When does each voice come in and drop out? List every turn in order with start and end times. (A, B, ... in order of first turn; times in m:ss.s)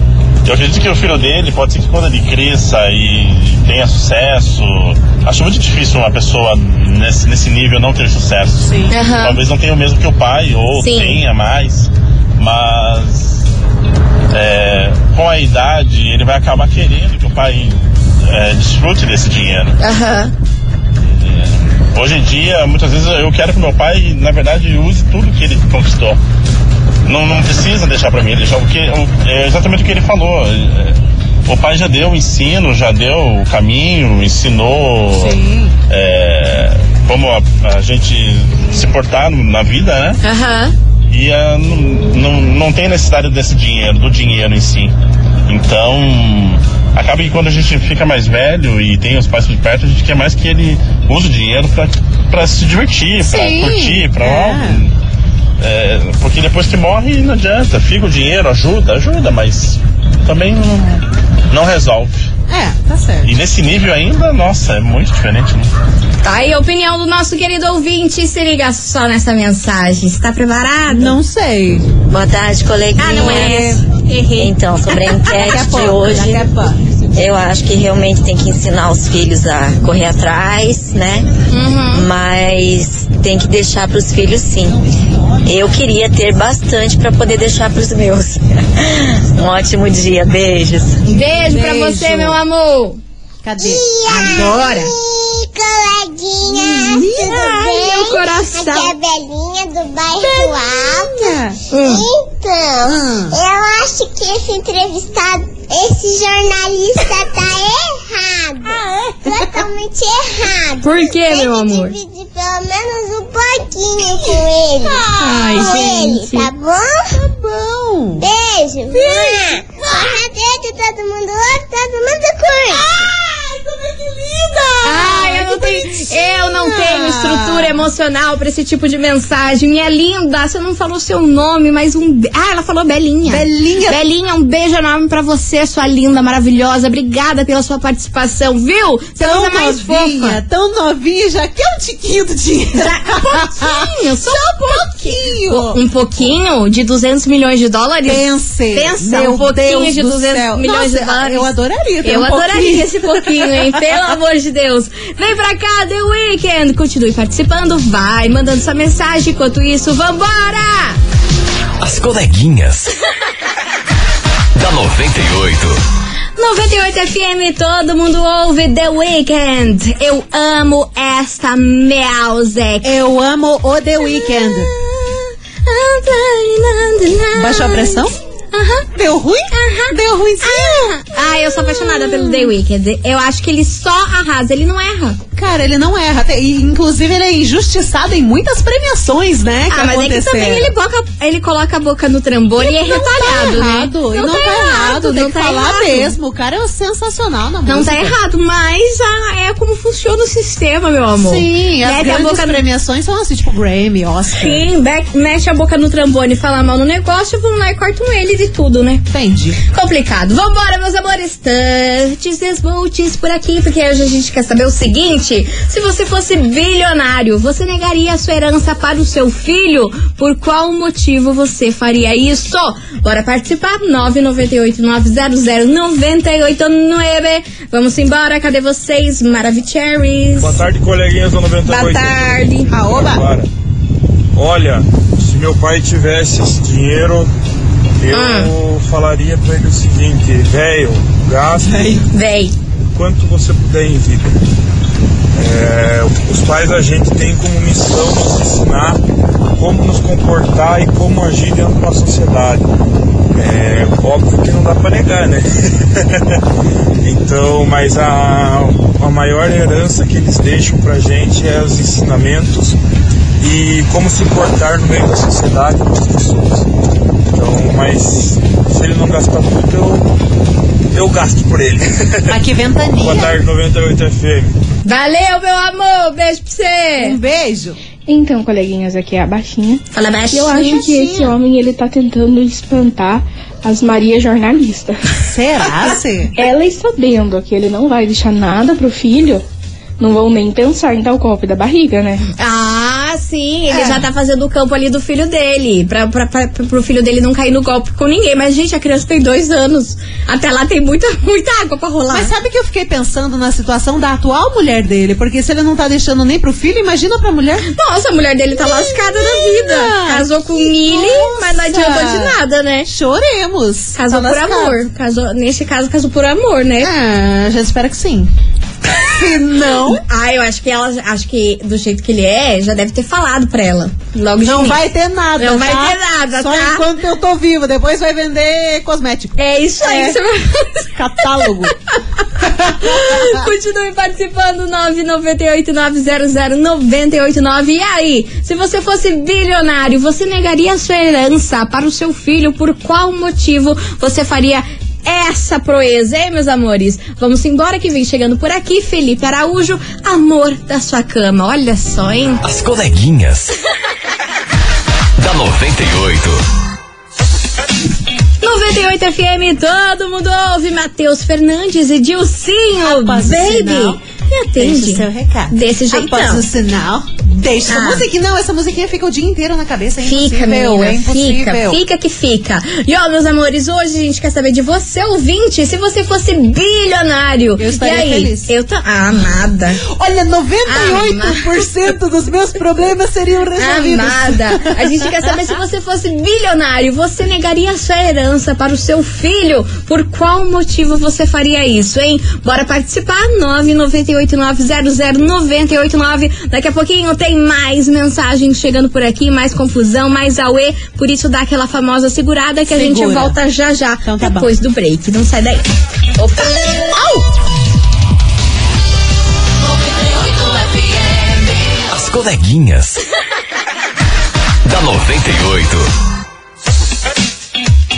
0:00.4-0:13.5 A
0:08.6-0:08.9 B
0:08.9-0:09.4 C
0:10.8-0:11.2 C
0:14.3-0:19.8 A
0:19.8-0:20.3 C
0:21.0-0:26.2 A
0:27.0-0:40.2 A
0:35.1-0:35.7 B
0:40.2-0:40.7 C
0:41.1-0:44.9 A
0:45.5-0:54.9 A
0:53.2-0:54.8 B
0:55.6-1:02.3 A
1:02.5-1:03.3 B
1:03.2-1:05.7 A
1:06.2-1:11.2 C
1:10.9-1:11.9 B
1:12.0-1:13.5 D
1:13.0-1:15.3 C
1:13.1-1:13.8 B
1:14.4-1:16.4 D
1:15.3-1:16.9 B
1:17.1-1:21.3 D
1:21.5-1:22.1 C
1:21.9-1:24.8 D
1:25.4-1:31.0 D
1:31.0-1:33.0 C
1:31.1-1:32.4 B
1:33.4-1:34.6 B
1:33.6-1:57.2 E
1:34.1-1:34.9 C
1:36.5-1:37.5 B
1:36.8-1:38.9 C
1:40.2-1:41.6 B
1:41.7-1:42.0 C
1:42.8-1:43.4 B
1:49.3-1:49.6 B
1:50.8-1:52.0 C
1:54.2-1:56.5 B
1:55.5-1:55.9 C
1:57.1-1:58.3 B
1:58.2-2:03.0 E
1:58.9-2:00.0 B
2:02.5-2:07.8 B
2:04.8-2:20.4 C
2:13.2-2:14.0 B
2:19.2-2:25.8 B
2:22.8-2:41.0 C
2:28.0-2:33.7 B
2:41.8-2:42.9 F
2:44.6-2:45.8 F
2:46.4-2:52.9 C
2:52.8-2:54.7 B
2:54.0-2:58.8 C
2:57.3-2:58.2 B
2:58.9-3:02.5 B
2:59.5-3:05.2 C
3:05.4-3:10.7 B
3:09.7-3:16.1 C
3:12.6-3:18.2 B
3:17.6-3:22.6 C
3:21.2-3:24.7 B
3:24.3-3:29.0 C
3:29.1-3:29.6 B
3:29.6-3:50.6 C
3:50.4-3:53.5 G
3:51.6-3:52.7 C
3:52.7-3:53.2 B
3:54.3-3:57.3 G
3:58.0-4:02.0 G
3:58.1-3:58.5 C
4:01.6-4:02.0 B
4:02.1-4:02.5 C
4:02.9-4:04.3 G
4:05.3-4:09.0 G
4:09.6-4:12.7 G
4:13.3-4:16.4 G
4:17.0-4:22.8 G
4:23.4-4:26.7 G
4:27.3-4:30.1 G
4:30.9-4:32.3 G
4:32.3-4:33.4 B
4:33.0-4:34.6 G
4:34.8-4:37.2 C
4:37.0-4:37.8 B
4:38.1-4:45.0 H
4:39.9-4:40.8 C
4:40.6-4:41.3 B
4:45.2-4:46.3 B
4:46.4-4:49.4 H
4:50.0-4:52.2 H
4:52.4-5:02.3 C
4:53.7-4:54.1 B
5:02.1-5:07.7 B
5:07.7-5:12.9 C
5:08.6-5:14.8 B
5:13.9-5:16.9 C
5:16.8-5:18.3 B
5:18.9-5:20.0 B
5:19.9-5:24.8 C
5:24.4-5:30.2 B
5:25.4-5:26.8 C
5:29.4-5:30.9 C
5:30.9-5:31.7 B
5:32.4-5:33.4 B
5:32.8-5:52.4 C
5:52.4-5:53.5 F
5:55.2-5:56.4 F
5:58.4-6:06.4 C
6:02.8-6:04.0 B
6:04.6-6:11.8 B
6:07.7-6:08.0 C
6:10.0-6:19.8 C
6:17.6-6:18.5 B
6:19.9-6:24.8 B
6:20.6-6:21.4 C
6:23.6-6:46.6 C
6:42.7-6:43.4 B
6:44.0-6:44.5 B
6:46.9-6:47.2 B
6:51.9-6:53.0 F
6:54.6-6:55.9 F